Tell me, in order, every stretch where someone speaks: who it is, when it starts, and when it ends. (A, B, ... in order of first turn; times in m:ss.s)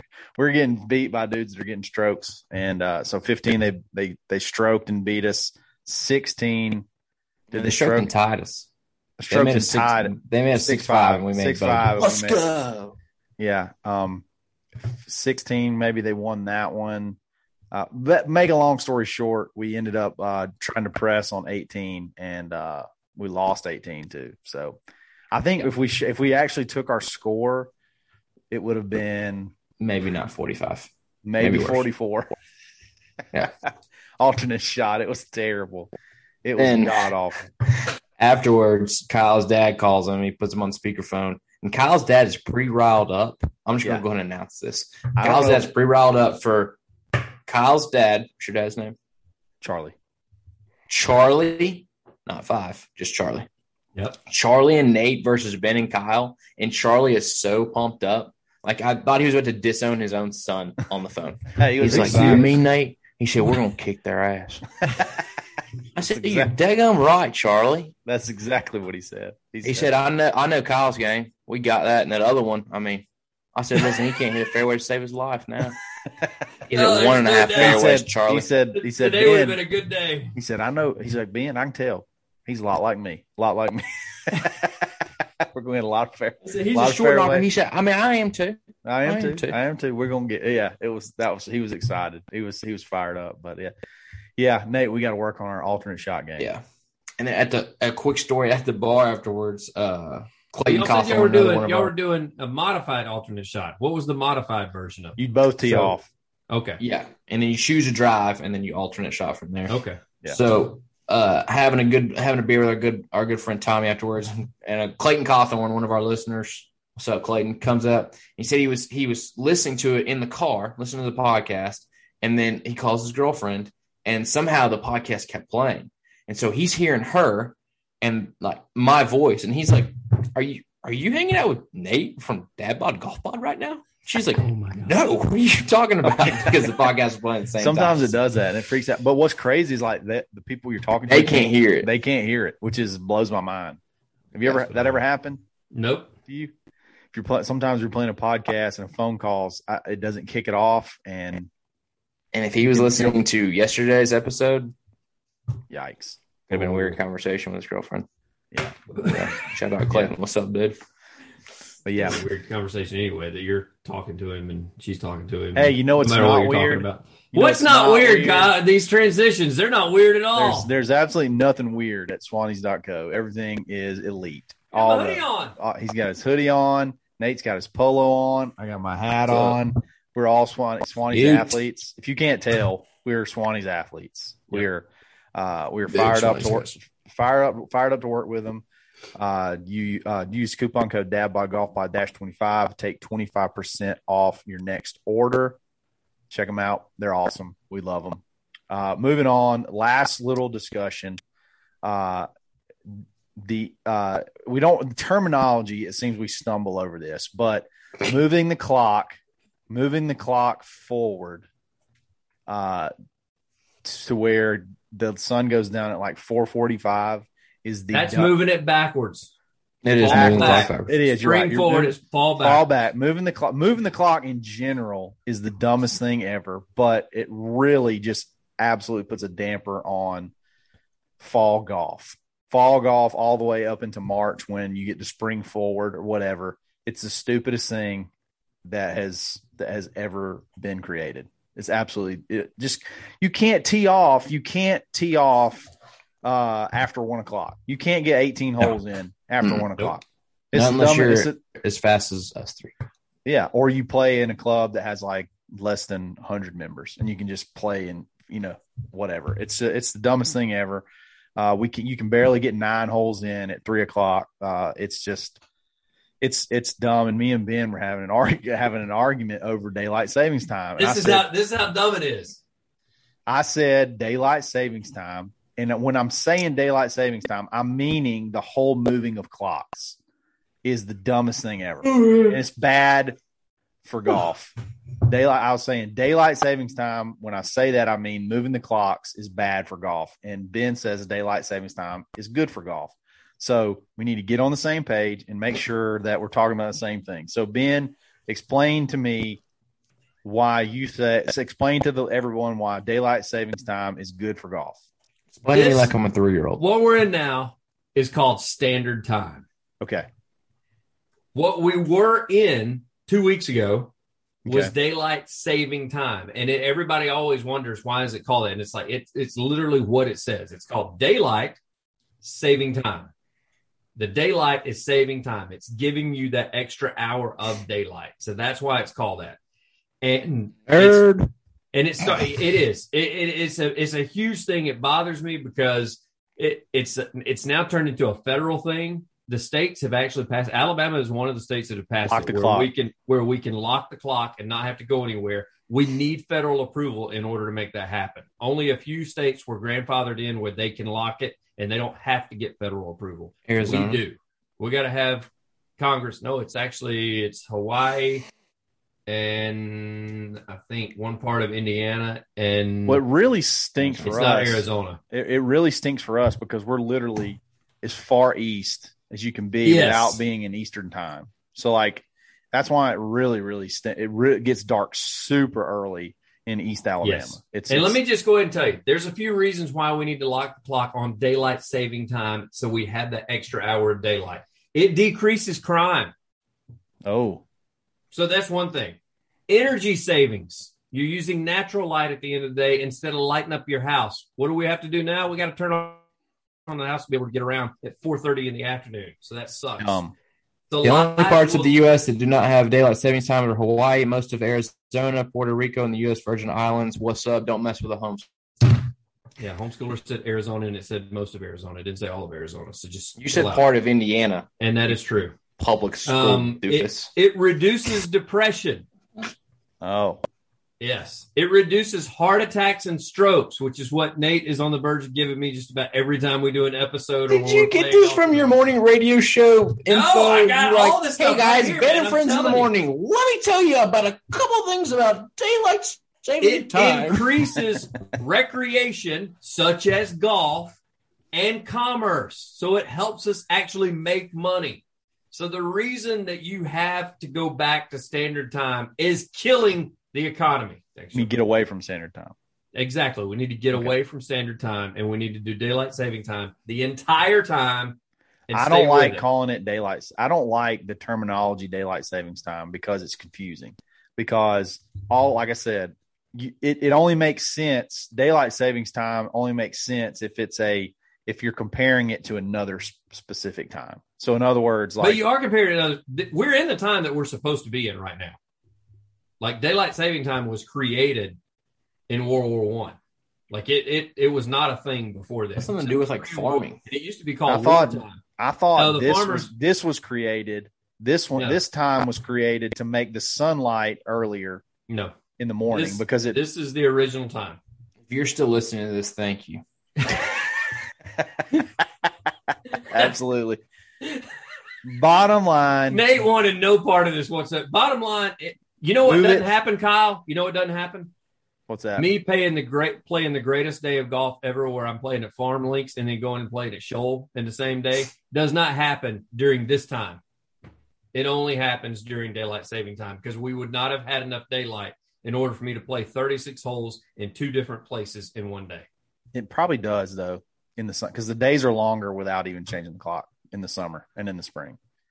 0:00.4-0:06.8 A
0:07.5-0:08.7 B
0:07.5-0:08.1 A
0:09.2-0:12.4 A
0:09.3-0:12.9 B
0:13.4-0:14.2 A
0:14.9-0:17.2 A
0:17.7-0:24.8 A
0:25.3-0:27.7 A
0:28.5-0:29.5 A
0:29.8-0:31.9 B
0:31.2-0:32.3 A
0:34.2-0:35.9 A
0:36.4-0:37.4 A
0:36.6-0:37.1 B
0:38.2-0:46.8 B
0:45.2-0:45.7 A
0:47.4-0:49.0 B
0:49.6-0:49.9 A
0:50.9-0:53.5 B
0:54.3-1:04.7 B
1:01.6-1:02.5 A
1:01.9-1:02.4 C
1:06.0-1:07.9 B
1:06.1-1:06.5 A
1:08.0-1:09.9 A
1:09.6-1:15.8 B
1:16.7-1:18.5 B
1:16.7-1:17.9 C
1:17.6-1:19.6 A
1:18.7-1:20.3 C
1:20.3-1:24.9 A
1:25.4-1:27.4 A
1:26.5-1:29.6 B
1:28.8-1:33.7 A
1:34.4-1:36.5 A
1:36.4-1:36.6 B
1:37.2-1:41.9 B
1:40.6-1:46.0 C
1:45.2-1:46.1 A
1:46.5-1:46.8 C
1:46.8-2:18.1 B
1:49.7-1:50.0 C
2:14.4-2:15.1 C
2:16.0-2:16.9 A
2:17.6-2:23.8 A
2:21.1-2:21.9 B
2:24.3-2:25.4 A
2:24.4-2:25.0 B
2:25.7-2:26.1 C
2:26.3-2:26.5 A
2:27.1-2:31.5 A
2:32.3-2:34.7 B
2:32.7-2:33.2 A
2:35.7-2:37.0 A
2:36.5-2:38.1 B
2:38.9-2:39.3 C
2:39.0-2:40.8 B
2:41.8-2:42.2 A
2:42.0-2:50.7 C
2:45.5-2:48.5 A
2:50.3-3:08.6 A
2:54.7-2:55.6 C
2:59.3-2:59.6 B
3:01.1-3:01.6 B
3:05.9-3:06.7 B
3:09.2-3:15.6 A
3:16.3-3:21.2 A
3:21.8-3:22.3 A
3:23.4-3:29.2 A
3:29.7-3:31.4 A
3:32.5-3:32.9 A
3:33.8-3:38.3 A
3:37.9-3:39.3 C
3:39.8-3:41.0 B
3:39.9-3:42.7 C
3:40.0-3:50.3 A
3:51.2-3:58.1 A
3:58.6-4:05.7 A
4:06.2-4:11.4 A
4:09.4-4:09.7 B
4:10.5-4:12.7 B
4:13.2-4:20.8 A
4:21.4-4:25.4 A
4:26.2-4:31.3 A
4:30.8-4:32.4 C
4:33.3-4:40.0 A
4:40.6-4:43.2 A
4:43.8-4:44.5 A
4:45.0-4:59.4 A
5:00.2-5:04.8 A
5:05.4-5:06.6 B
5:05.5-5:05.9 C
5:06.6-5:09.4 C
5:09.8-5:10.1 A
5:11.3-5:13.9 C
5:14.4-5:14.7 A
5:14.5-5:21.6 C
5:22.2-5:23.1 C
5:24.0-5:29.4 C
5:30.0-5:31.0 C
5:30.7-5:31.3 B
5:31.7-5:58.2 C
5:42.1-5:42.7 A
5:53.5-5:54.0 B
5:59.1-6:03.0 C
6:02.8-6:18.0 A
6:04.0-6:05.0 C
6:09.6-6:10.2 C
6:17.0-6:26.1 C
6:27.0-6:27.4 A
6:28.1-6:36.0 C
6:36.7-6:40.0 C
6:39.8-6:40.1 A
6:40.7-6:41.7 C
6:40.8-6:48.7 B
6:49.4-6:53.6 C
6:53.2-6:54.5 B
6:54.6-6:55.4 C
6:55.6-6:57.1 B
6:56.0-6:58.8 C
6:59.8-7:00.2 A
7:00.8-7:08.6 C
7:07.3-7:17.4 B
7:09.9-7:12.7 C
7:16.4-7:20.8 C
7:21.3-7:31.3 C
7:31.1-7:32.3 A
7:32.7-7:38.0 C
7:38.5-7:39.2 C
7:38.5-7:55.2 A
7:55.0-7:58.4 C
7:59.4-8:01.4 C
8:02.1-8:03.0 C
8:03.5-8:08.2 C
8:05.6-8:06.8 B
8:07.5-8:14.6 A
8:08.8-8:09.5 C
8:14.9-8:15.1 C
8:15.4-8:16.4 A
8:15.7-8:17.6 C
8:18.1-8:19.6 B
8:22.8-8:23.1 C
8:22.9-8:23.6 A
8:24.8-8:26.0 A
8:25.9-8:31.1 C
8:29.0-8:29.5 A
8:31.7-8:32.1 A
8:32.0-8:40.2 C
8:41.1-8:48.9 C
8:49.3-8:54.8 A